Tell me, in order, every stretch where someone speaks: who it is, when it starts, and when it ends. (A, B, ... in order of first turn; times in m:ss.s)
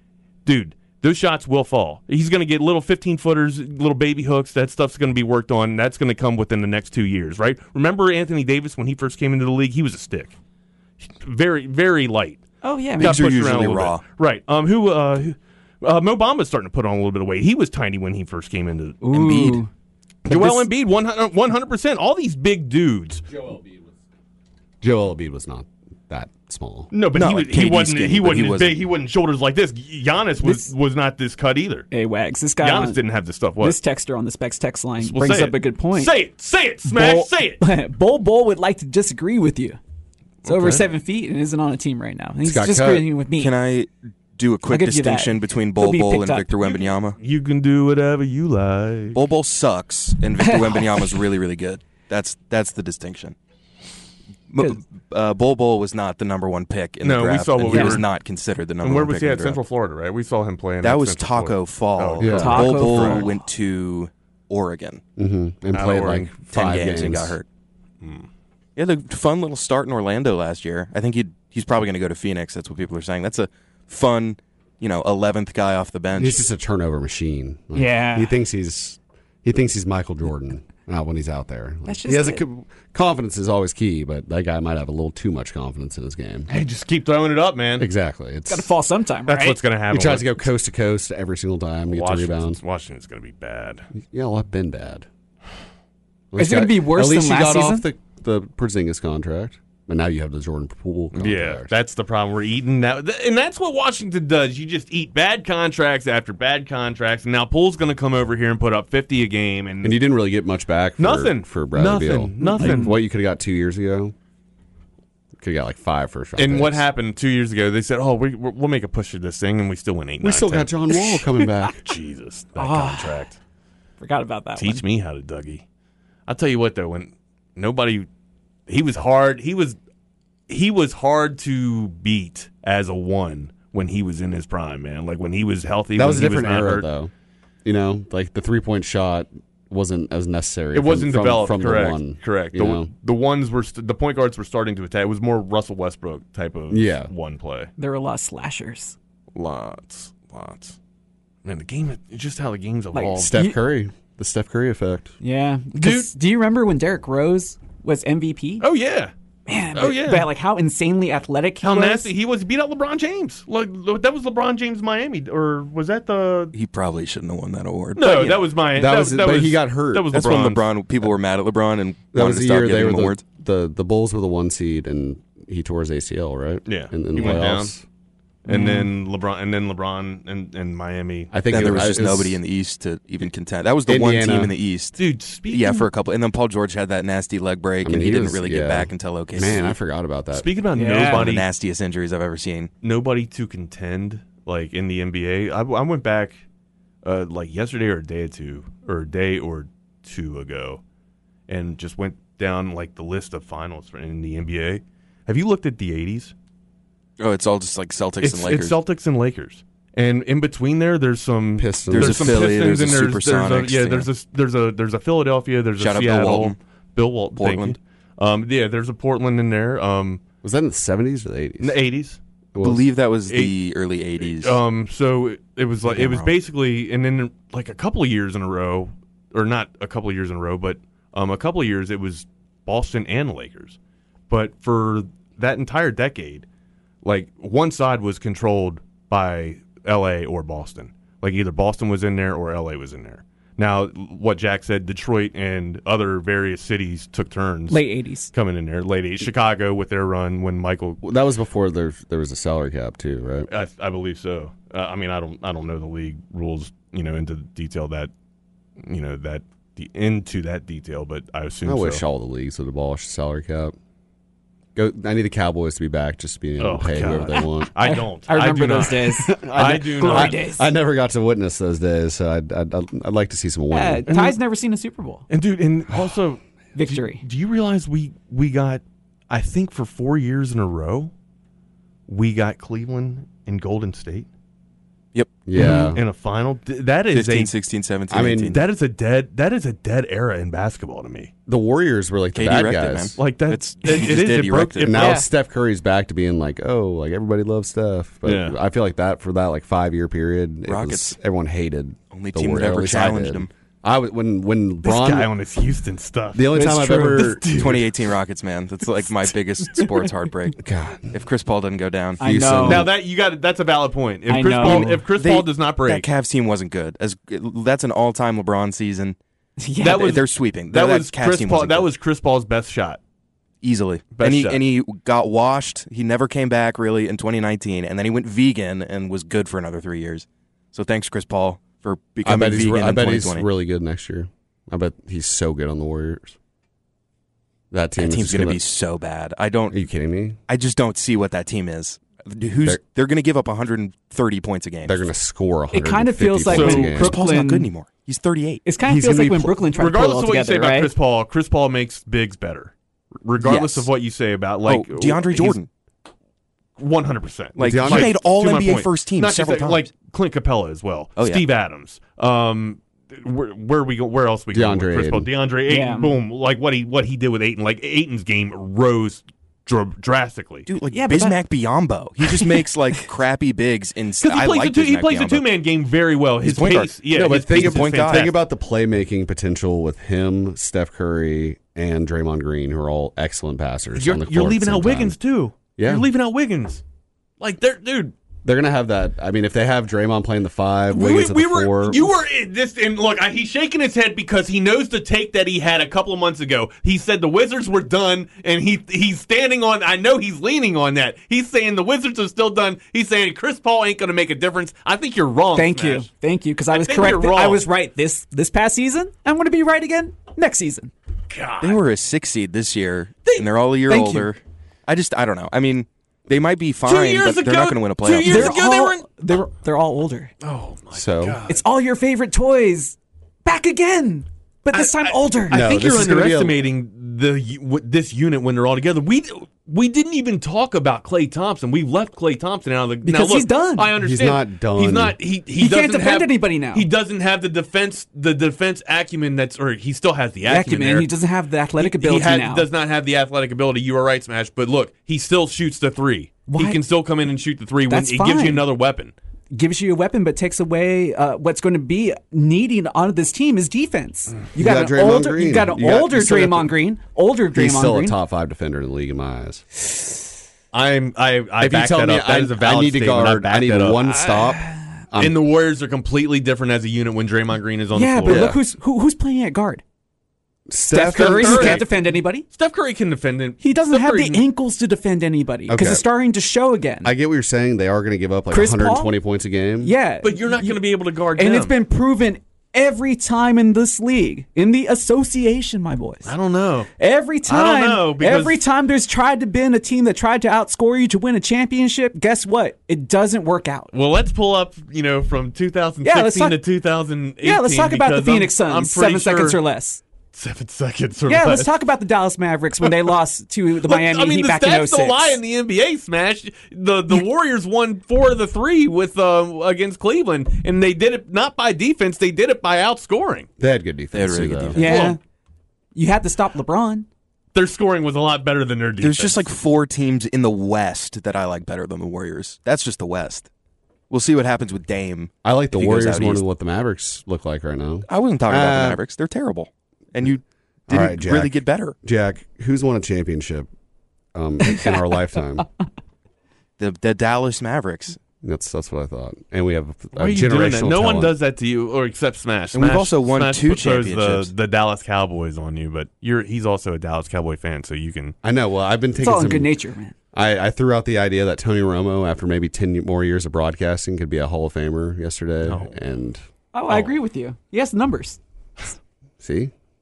0:00.4-0:10.3 A
0:11.0-0:12.4 A
0:12.6-0:13.3 B
0:13.0-0:19.0 A
0:13.0-0:14.0 C
0:19.0-0:19.7 B
0:19.1-0:19.6 C
0:20.2-0:23.2 A
0:20.3-0:20.6 B
0:24.8-0:26.9 D
0:26.9-0:31.9 A
0:27.1-0:28.8 C
0:30.4-0:30.7 B
0:31.9-0:33.0 B
0:32.6-0:33.8 A
0:33.6-0:36.1 B
0:35.0-0:37.6 A
0:36.8-0:39.8 B
0:40.4-0:40.8 A
0:40.4-0:43.5 B
0:42.4-0:43.1 D
0:43.3-0:47.2 C
0:44.7-0:46.5 B
0:47.2-0:49.2 A
0:49.1-0:53.4 C
0:50.4-0:51.2 B
0:54.5-0:59.6 C
0:57.0-0:58.1 A
0:57.7-0:58.0 B
0:58.8-1:03.3 A
1:00.8-1:05.0 C
1:02.2-1:03.2 D
1:02.4-1:03.3 B
1:05.2-1:07.4 D
1:05.7-1:06.4 A
1:06.5-1:07.4 C
1:08.0-1:08.3 A
1:08.8-1:16.4 C
1:16.1-1:26.5 D
1:17.7-1:18.4 B
1:21.8-1:22.4 B
1:26.5-1:27.9 A
1:27.8-1:28.7 D
1:28.5-1:29.6 B
1:29.3-1:30.5 A
1:29.9-1:32.6 D
1:31.9-1:33.8 A
1:34.0-1:35.1 D
1:36.3-1:41.7 D
1:36.4-1:37.8 B
1:41.1-1:50.0 A
1:49.8-1:54.1 D
1:51.0-1:52.9 A
1:52.4-1:53.0 B
1:55.4-1:56.8 D
1:56.4-2:00.7 A
2:00.2-2:01.8 D
2:01.8-2:03.4 A
2:02.6-2:03.3 B
2:04.0-2:04.8 B
2:04.6-2:05.6 A
2:06.3-2:08.1 A
2:08.7-2:09.8 A
2:10.5-2:16.9 A
2:15.9-2:17.1 D
2:17.6-2:22.9 D
2:20.7-2:27.7 A
2:26.7-2:27.1 D
2:27.8-2:29.0 B
2:29.3-2:30.8 A
2:31.4-2:33.3 A
2:32.9-2:33.6 B
2:33.1-2:35.1 D
2:35.2-2:38.6 B
2:35.7-2:36.1 A
2:38.6-2:39.1 A
2:39.5-2:42.1 B
2:39.8-2:40.3 A
2:41.6-2:46.5 A
2:46.5-2:48.5 C
2:47.9-2:50.7 A
2:48.7-2:50.1 D
2:50.1-2:53.2 C
2:52.1-2:57.8 D
2:56.6-2:57.7 A
2:58.4-3:01.8 A
2:58.5-2:58.9 B
3:01.3-3:02.4 D
3:01.5-3:09.8 C
3:03.8-3:04.5 D
3:05.0-3:05.9 A
3:07.8-3:10.5 D
3:10.3-3:11.4 A
3:10.7-3:11.2 B
3:11.1-3:12.7 C
3:12.8-3:16.4 A
3:17.0-3:20.8 A
3:21.5-3:26.3 A
3:27.2-3:28.8 C
3:28.2-3:40.2 A
3:31.6-3:32.8 D
3:31.9-3:34.1 C
3:35.8-3:36.6 C
3:37.4-3:37.8 C
3:40.4-3:41.8 D
3:41.6-3:42.2 A
3:42.5-3:42.8 D
3:42.6-3:44.6 C
3:43.3-3:43.5 A
3:44.2-3:53.8 A
3:45.8-3:46.3 C
3:54.3-3:56.4 A
3:57.0-4:11.0 A
4:07.7-4:08.3 B
4:11.0-4:13.5 D
4:13.5-4:18.1 A
4:18.8-4:22.0 A
4:21.6-4:23.7 D
4:24.7-4:27.7 D
4:26.6-4:30.4 A
4:27.2-4:30.7 B
4:29.2-4:34.0 D
4:33.7-4:35.2 B
4:34.1-4:34.4 A
4:35.3-4:41.1 A
4:36.7-4:37.2 B
4:42.1-4:44.3 A
4:45.1-4:46.0 C
4:45.4-4:46.0 D
4:45.5-4:47.5 A
4:47.1-4:48.6 C
4:48.1-4:48.6 D
4:48.5-4:51.3 A
4:51.5-4:53.2 D
4:52.3-4:55.2 C
4:53.2-4:55.2 A
4:54.8-5:05.3 D
4:55.0-4:55.2 B
4:58.2-4:58.6 A
5:00.6-5:01.2 C
5:02.1-5:03.5 C
5:04.8-5:08.1 A
5:06.3-5:07.4 D
5:06.5-5:07.4 B
5:07.5-5:12.3 C
5:10.6-5:11.1 D
5:12.2-5:12.9 B
5:12.2-5:12.9 D
5:12.7-5:16.1 A
5:14.3-5:15.0 B
5:14.6-5:19.2 C
5:19.6-5:20.2 B
5:19.8-5:23.0 A
5:20.0-5:21.9 C
5:23.6-5:33.5 C
5:24.1-5:24.6 A
5:32.2-5:36.4 D
5:37.7-5:38.6 D
5:38.0-5:39.8 C
5:39.7-5:40.4 D
5:40.5-5:45.1 C
5:44.9-5:47.2 D
5:45.7-5:47.7 B
5:46.5-5:47.0 A
5:46.6-5:48.6 C
5:48.6-5:50.9 B
5:48.8-5:49.6 D
5:49.7-5:52.7 A
5:53.2-5:55.6 A
5:53.4-5:53.9 C
5:54.6-5:55.7 C
5:56.8-6:10.7 A
5:57.6-5:59.9 C
5:57.6-5:58.2 D
6:01.2-6:01.4 C
6:04.5-6:05.3 D
6:05.7-6:06.1 B
6:10.7-6:15.4 C
6:10.9-6:11.4 B
6:14.2-6:18.4 A
6:16.4-6:18.3 C
6:17.1-6:25.2 D
6:24.0-6:26.8 A
6:25.8-6:26.1 D
6:27.4-6:28.1 A
6:28.4-6:32.1 D
6:30.9-6:46.1 A
6:45.5-6:50.9 B
6:46.7-6:47.6 A
6:51.3-6:51.8 A
6:51.6-6:58.6 C
6:53.2-6:53.5 A
6:53.9-6:54.3 B
6:56.8-6:59.0 A
6:58.2-7:00.3 B
7:00.4-7:01.6 A
7:00.9-7:01.4 D
7:01.5-7:05.6 B
7:04.7-7:21.1 A
7:05.5-7:06.6 D
7:13.0-7:13.9 B
7:14.0-7:15.2 D
7:15.6-7:16.9 B
7:20.5-7:22.7 B
7:21.8-7:29.1 A
7:26.5-7:26.8 B
7:27.9-7:28.7 B
7:29.5-7:38.2 B
7:34.5-7:36.8 D
7:37.5-7:39.6 D
7:40.7-7:44.0 A
7:41.6-7:45.4 D
7:44.2-7:44.8 B
7:45.2-7:48.5 A
7:47.9-7:49.8 B
7:48.3-7:48.6 D
7:50.7-7:51.8 D
7:50.9-7:52.5 B
7:51.0-7:52.0 A
7:52.5-7:54.4 A
7:53.6-7:57.1 B
7:55.7-7:56.0 D
7:57.0-7:59.9 D
7:58.5-7:59.2 B
7:59.8-8:06.3 B
8:00.2-8:01.8 A
8:06.2-8:06.9 A
8:07.0-8:13.9 B
8:07.4-8:08.6 A
8:13.9-8:19.6 A
8:16.0-8:16.6 B
8:17.4-8:20.0 B
8:20.3-8:21.7 A
8:21.3-8:25.4 B
8:23.8-8:33.5 A
8:33.6-8:35.1 D
8:34.1-8:35.1 C
8:34.8-8:35.2 B
8:34.8-8:35.2 A
8:35.9-8:37.1 B
8:37.5-8:39.5 A
8:39.0-8:43.5 C
8:44.1-8:46.4 C
8:45.4-8:49.0 D
8:48.1-8:52.0 C
8:50.9-8:53.7 D
8:54.3-8:55.7 D
8:56.8-8:58.2 C
8:58.4-9:01.4 D
9:00.2-9:08.4 A
9:02.7-9:04.5 C
9:08.4-9:09.7 D
9:09.2-9:10.1 B
9:10.3-9:16.4 D
9:15.6-9:15.9 A
9:16.7-9:18.4 B
9:19.4-9:19.7 D